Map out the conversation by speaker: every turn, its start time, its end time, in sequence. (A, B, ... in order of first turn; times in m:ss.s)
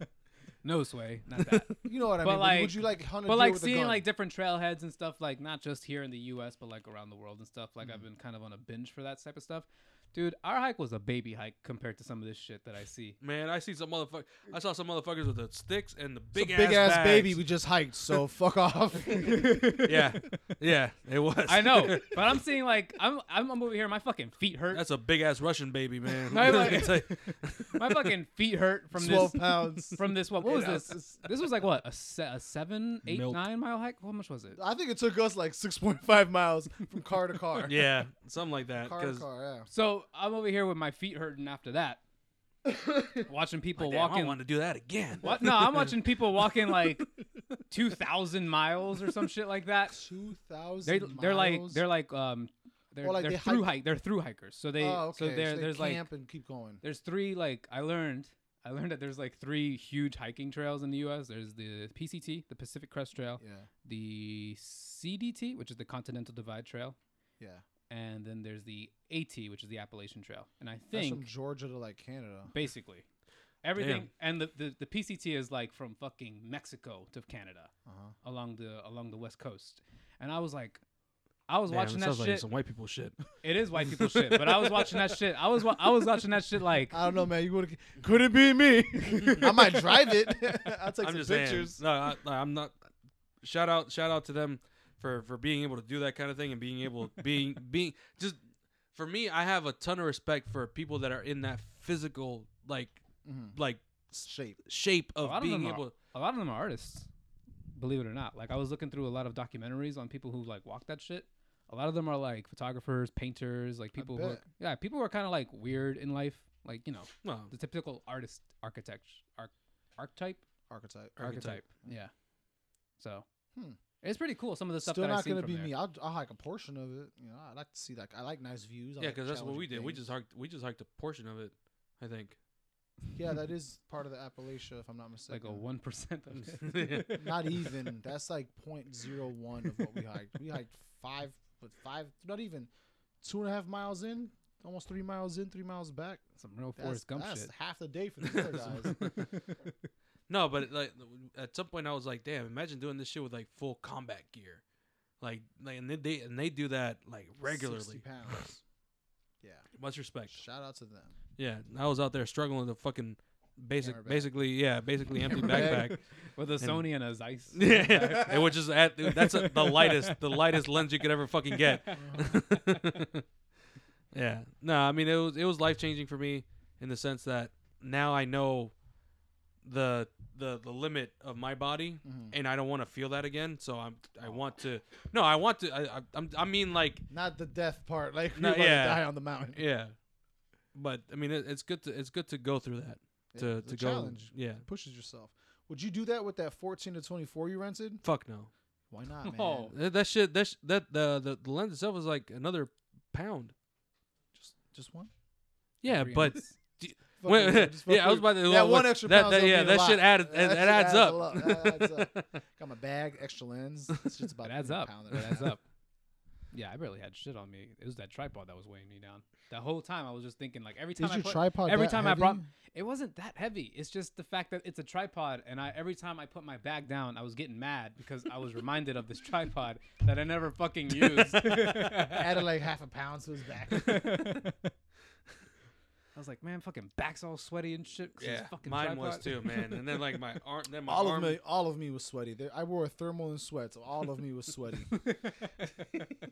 0:00.6-0:13.2 A
0:01.8-0:04.0 B
0:13.2-0:17.4 C
0:16.3-0:19.8 B
0:19.2-0:20.0 A
0:19.8-0:22.2 C
0:21.5-0:24.8 A
0:24.7-0:28.1 C
0:26.3-0:34.6 A
0:28.9-0:31.2 B
0:33.0-0:33.4 C
0:34.6-0:37.8 B
0:37.6-0:39.2 C
0:38.8-0:39.7 B
0:39.7-0:42.0 A
0:42.7-0:43.2 B
0:43.3-0:44.4 A
0:43.8-0:45.9 C
0:45.2-0:47.1 A
0:47.7-0:50.0 A
0:49.9-0:51.8 B
0:50.8-0:56.0 A
0:53.0-0:53.7 B
0:54.8-0:56.8 B
0:56.8-1:07.0 A
1:03.4-1:03.7 B
1:07.9-1:11.3 A
1:10.9-1:12.5 B
1:12.5-1:13.0 A
1:13.6-1:17.7 A
1:13.8-1:14.1 C
1:17.9-1:18.1 B
1:18.2-1:20.8 A
1:21.5-1:22.4 A
1:21.7-1:23.2 C
1:23.4-1:27.0 A
1:23.9-1:24.9 C
1:26.9-1:31.8 B
1:31.0-1:32.7 C
1:33.4-1:38.4 C
1:38.9-1:43.0 C
1:43.2-1:43.6 B
1:43.5-1:45.9 C
1:44.2-1:44.6 B
1:45.2-1:47.1 A
1:47.7-2:00.4 A
1:54.0-1:54.4 B
1:57.2-1:57.5 C
2:00.7-2:01.9 B
2:01.2-2:01.6 C
2:01.2-2:02.1 A
2:03.0-2:03.2 A
2:04.0-2:05.7 A
2:04.8-2:10.1 B
2:09.0-2:12.4 C
2:13.1-2:15.6 B
2:15.3-2:17.3 A
2:16.4-2:17.2 C
2:17.1-2:22.7 B
2:23.2-2:26.2 B
2:26.4-2:27.5 A
2:26.8-2:29.0 B
2:28.3-2:29.1 C
2:28.9-2:29.7 A
2:30.3-2:34.6 C
2:35.2-2:38.4 C
2:37.4-2:38.6 B
2:39.4-2:39.6 B
2:39.8-2:40.4 C
2:40.3-2:41.1 B
2:41.4-2:46.0 C
2:43.8-2:44.4 B
2:45.3-2:45.9 B
2:45.3-2:50.6 A
2:47.5-2:53.2 C
2:51.5-2:53.0 A
2:51.9-2:52.4 B
2:54.1-2:58.7 C
2:59.6-3:07.0 C
3:02.0-3:02.3 B
3:07.1-3:09.6 B
3:08.3-3:09.9 C
3:10.7-3:14.6 C
3:13.3-3:18.0 B
3:18.0-3:18.5 C
3:18.9-3:19.7 B
3:19.2-3:19.7 A
3:19.7-3:23.5 C
3:24.3-3:25.1 B
3:25.8-3:32.2 C
3:25.8-3:26.6 A
3:27.2-3:35.5 B
3:34.4-3:35.6 A
3:36.5-3:52.4 A
3:41.0-3:42.4 B
3:52.1-3:54.2 B
3:53.7-3:54.7 A
3:56.1-3:59.8 A
3:58.2-4:01.4 C
4:00.9-4:05.0 B
4:05.0-4:05.7 A